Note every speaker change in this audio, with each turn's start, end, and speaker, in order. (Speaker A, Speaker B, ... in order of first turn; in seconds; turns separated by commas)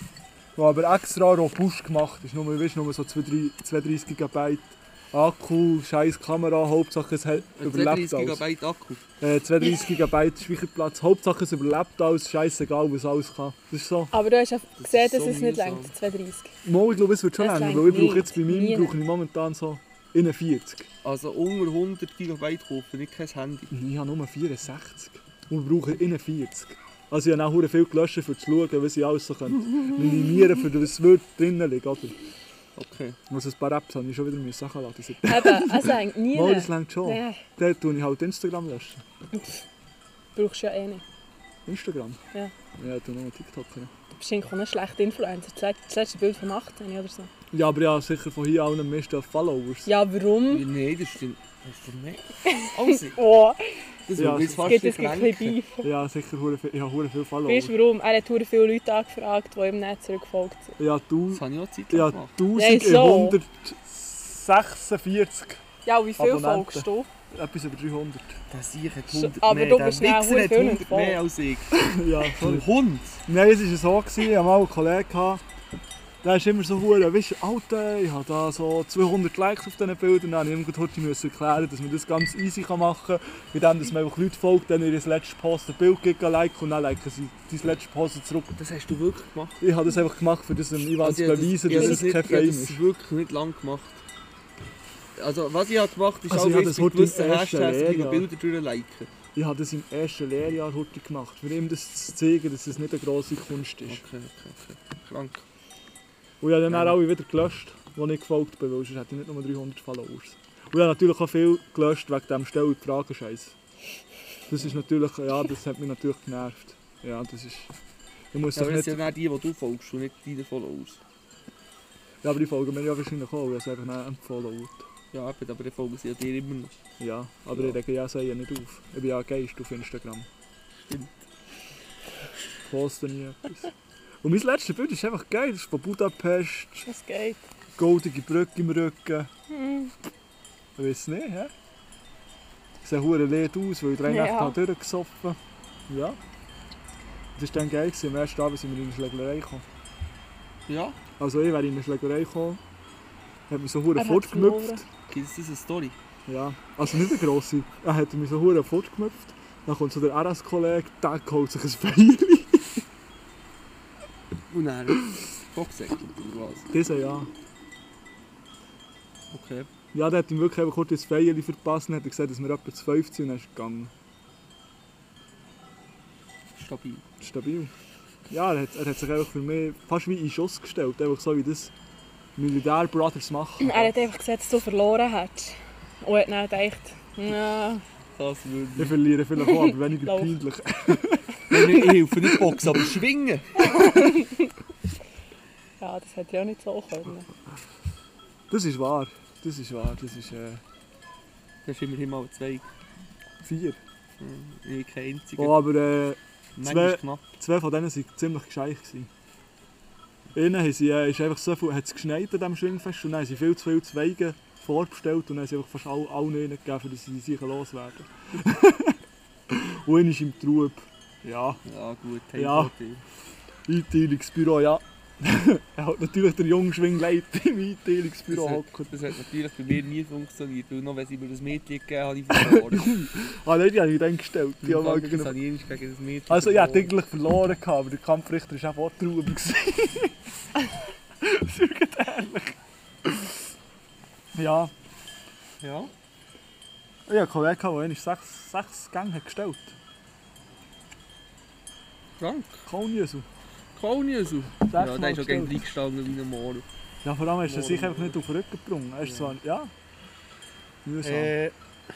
Speaker A: 0.6-8.4, Speaker B: 7.6-9.0, Speaker A: 9.2-14.1, Speaker C: 14.1-16.5, Speaker B: 14.8-15.9, Speaker A: 16.6-20.9, Speaker C: 17.4-18.9, Speaker B: 21.0-23.7, Speaker A: 23.7-32.2, Speaker B: 32.8-33.2, Speaker A: 33.3-39.0, Speaker C: 35.3-37.4, Speaker C: 39.4-39.6, Speaker C: 40.4-41.0, Speaker A: 41.7-42.2, Speaker A: 42.7-43.9, Speaker C: 44.2-47.3, Speaker A: 47.5-49.9, Speaker C: 49.9-50.7, Speaker B: 50.5-53.2, Speaker C: 52.5-53.6, Speaker B: 54.0-55.6, Speaker A: 54.2-54.8, Speaker C: 54.4-55.9, Speaker A: 55.8-57.7, Speaker C: 57.5-60.7, Speaker A: 60.8-65.6, Speaker B: 61.3-62.4, Speaker C: 62.5-63.4, Speaker C: 65.9-67.1, Speaker A: 66.2-68.4, Speaker B: 68.5-73.2, Speaker C: 69.1-71.2, Speaker A: 71.7-72.7, Speaker A: 73.3-75.4, Speaker A: 76.2-88.5, Speaker B: 88.6-89.6, Speaker A: 89.6-92.8, Speaker B: 90.9-94.0, Speaker B: 95.2-99.1, Speaker A: 96.3-98.3, Speaker A: 99.3-104.0, Speaker B: 103.8-105.5, Speaker A: 106.4-113.5, Speaker B: 106.7-107.0, Speaker A: 114.5-117.7, Speaker A: 118.3-119.0, Speaker B: 118.5-121.0, Speaker A: 122.2-124.9, Speaker B: 125.1-126.8, Speaker A: 127.0-130.3, Speaker B: 127.5-127.8, Speaker B: 130.9-131.2, Speaker A: 132.6-133.7, Speaker A: 134.2-136.9, Speaker C: 136.9-137.4, Speaker A: 137.8-139.3, Speaker C: 139.5-139.9, Speaker A: 140.8-141.5, Speaker A: 142.8-146.2, Speaker C: 144.1-144.6, Speaker A: 147.4-149.6, Speaker B: 150.7-151.0, Speaker A: 151.2-152.6, Speaker A: 153.5-154.9, Speaker C: 153.9-154.8, Speaker B: 155.1-156.0, Speaker A: 156.3-162.8, Speaker B: 164.5-166.7, Speaker A: 166.7-167.3, Speaker B: 169.3-169.7, Speaker A: 169.9-173.9, Speaker B: 176.6-177.0, Speaker A: 177.2-177.7, Speaker A: 178.3-181.7, Speaker A: 182.4-183.9, Speaker C: 183.6-187.8, Speaker B: 188.2-189.0, Speaker A: 188.8-191.9, Speaker C: 189.4-190.3, Speaker B: 191.5-193.5, Speaker C: 193.7-194.5, Speaker C: 195.8-197.3, Speaker A: 198.5-200.6, Speaker B: 201.6-202.7, Speaker A: 203.4-203.8, Speaker B: 204.2-205.6, Speaker A: 205.4-209.1, Speaker B: 206.6-207.2, Speaker A: 210.3-219.0, Speaker A: 219.5-221.6, Speaker B: 221.6-223.0, Speaker A: 222.4-222.7, Speaker A: 223.7-228.9, Speaker B: 228.3-232.9, Speaker A: 232.3-235.4, Speaker B: 234.6-236.9, Speaker A: 236.3-240.2, Speaker A: 241.2-243.4, Speaker A: 244.3-244.7, Speaker B: 245.6-245.9, Speaker A: 247.1-249.8, Speaker B: 252.2-252.7, Speaker A: 252.7-253.3, Speaker B: 253.7-256.7, Speaker A: 254.7-255.6, Speaker A: 257.0-259.7, Speaker B: 257.4-258.2, Speaker B: 259.0-259.4, Speaker A: 260.9-261.3, Speaker B: 261.0-261.6